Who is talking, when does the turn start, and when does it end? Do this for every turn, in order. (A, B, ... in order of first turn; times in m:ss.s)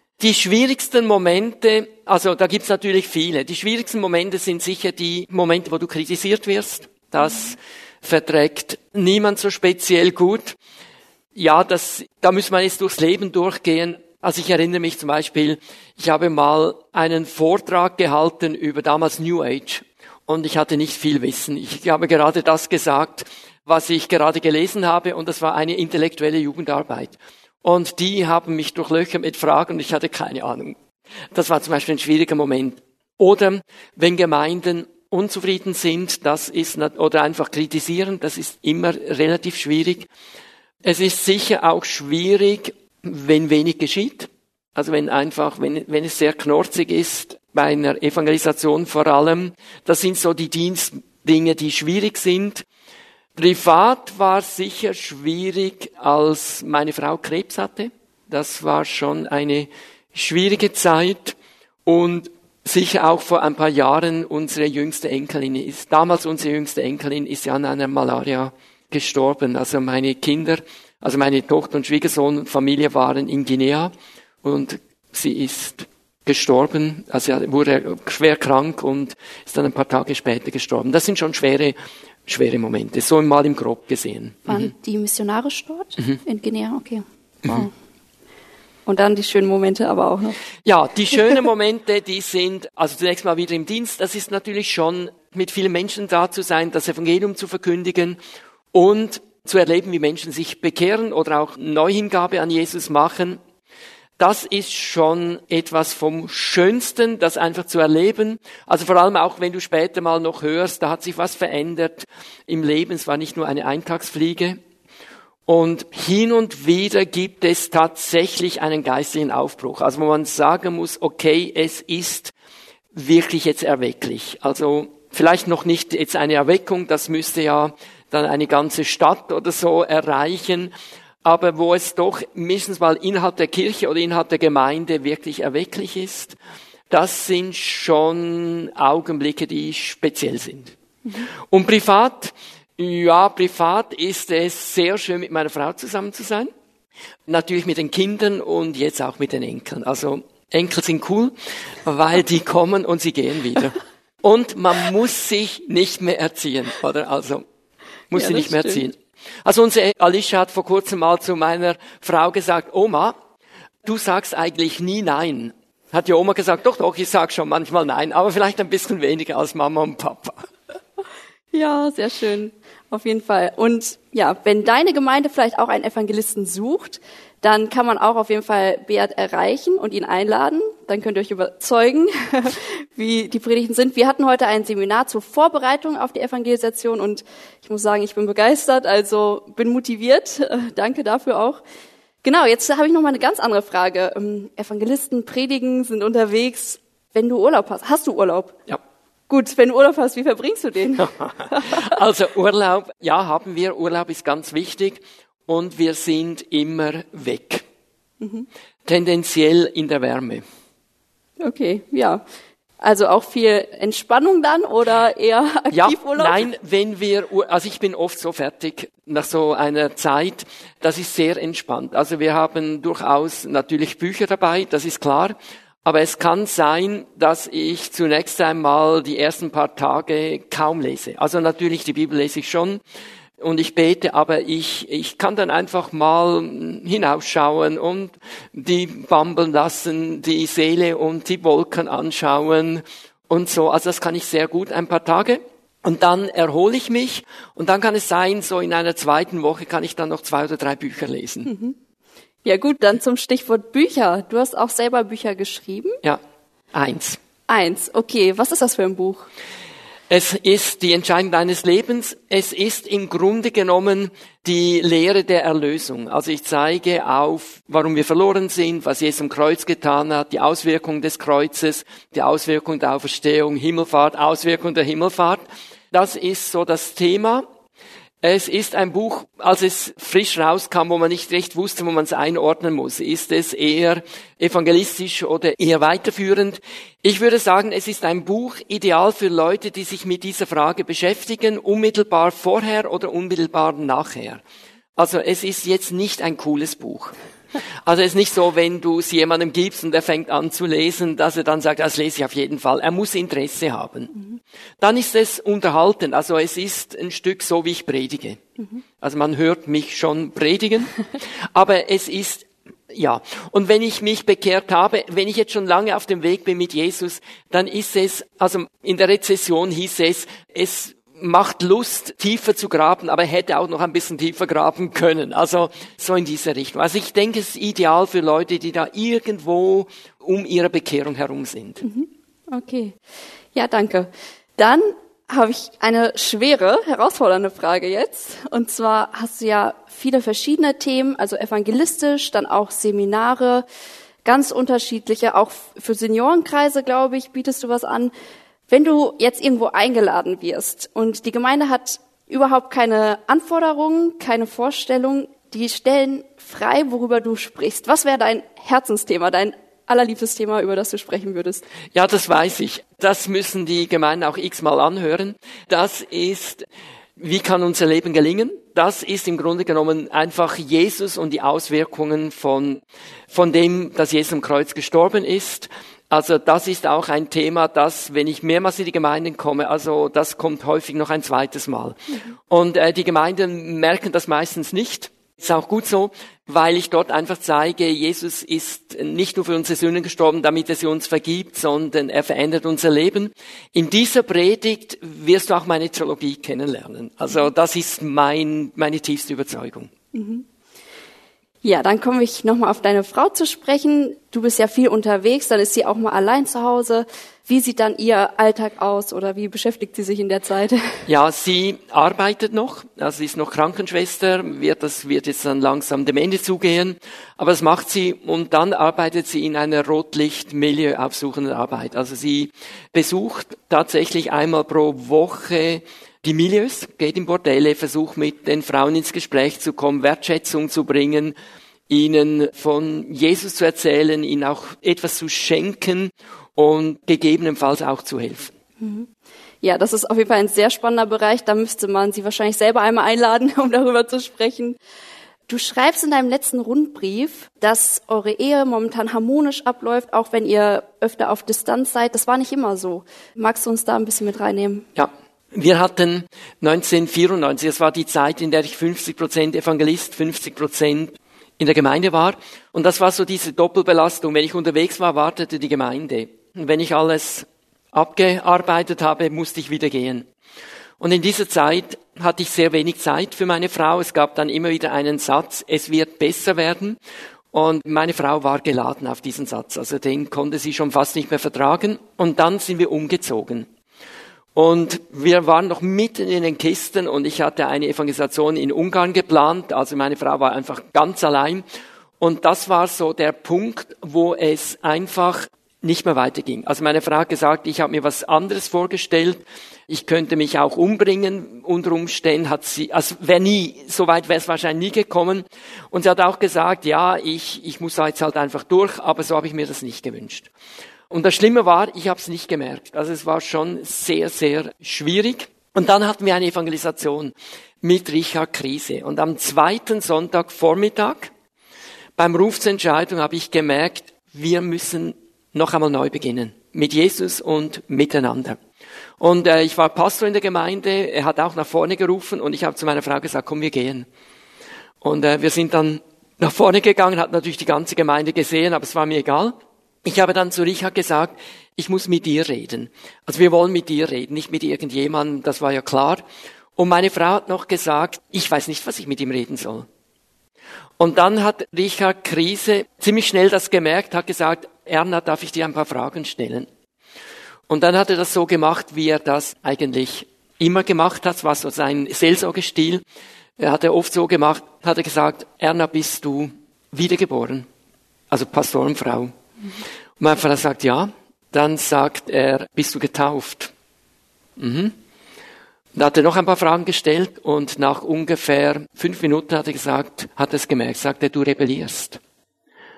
0:00.2-0:10.6 A
0:07.2-0:07.5 B
0:11.4-0:30.8 A
0:31.3-0:40.1 A
0:40.8-0:52.6 A
0:53.4-1:13.9 A
1:14.4-1:24.7 A
1:24.5-1:27.7 B
1:28.9-1:30.4 B
1:30.6-1:38.2 A
1:38.7-1:43.4 A
1:44.2-1:54.6 A
1:55.5-2:02.3 A
2:02.9-2:10.7 A
2:11.2-2:16.4 A
2:16.9-2:20.7 A
2:21.5-2:26.5 A
2:27.3-2:31.3 A
2:31.8-2:37.4 A
2:38.1-2:43.2 A
2:38.2-2:38.8 B
2:43.8-2:50.5 A
2:51.5-3:11.6 B
3:12.2-3:18.6 B
3:19.3-3:21.9 B
3:21.0-3:27.6 A
3:28.2-3:28.5 B
3:28.9-3:30.4 A
3:31.4-3:32.2 B
3:32.8-3:36.4 B
3:35.7-3:52.8 A
3:53.4-4:11.5 A
4:11.4-4:11.8 B
4:12.4-4:16.0 B
4:16.7-4:17.2 A
4:17.5-4:19.3 B
4:20.1-4:37.5 A
4:38.2-4:54.4 A
4:55.0-4:57.2 A
4:57.8-5:04.2 A
5:04.8-5:08.4 A
5:09.0-5:31.8 A
5:31.8-5:33.0 B
5:33.6-5:43.6 B
5:44.2-5:48.1 B
5:48.7-6:01.6 B
6:01.9-6:06.6 A
6:07.2-6:22.0 A
6:22.5-6:39.9 A
6:40.1-6:40.4 B
6:41.6-6:51.0 B
6:51.1-7:11.4 A
7:11.9-7:18.5 A
7:18.8-7:19.1 B
7:19.6-7:24.8 B
7:25.5-7:34.9 B
7:35.0-7:50.3 A
7:51.0-7:57.0 A
7:57.5-8:03.7 A
8:04.6-8:11.6 A
8:12.2-8:30.5 A
8:31.1-8:41.3 A
8:42.2-8:48.6 A
8:49.2-8:54.1 A
8:55.0-9:06.2 A
9:06.8-9:09.9 A
9:11.0-9:16.7 A
9:17.7-9:23.0 A
9:23.6-9:27.7 A
9:28.3-9:29.3 A
9:30.2-9:33.7 A
9:34.6-9:34.9 A
9:36.0-9:42.2 A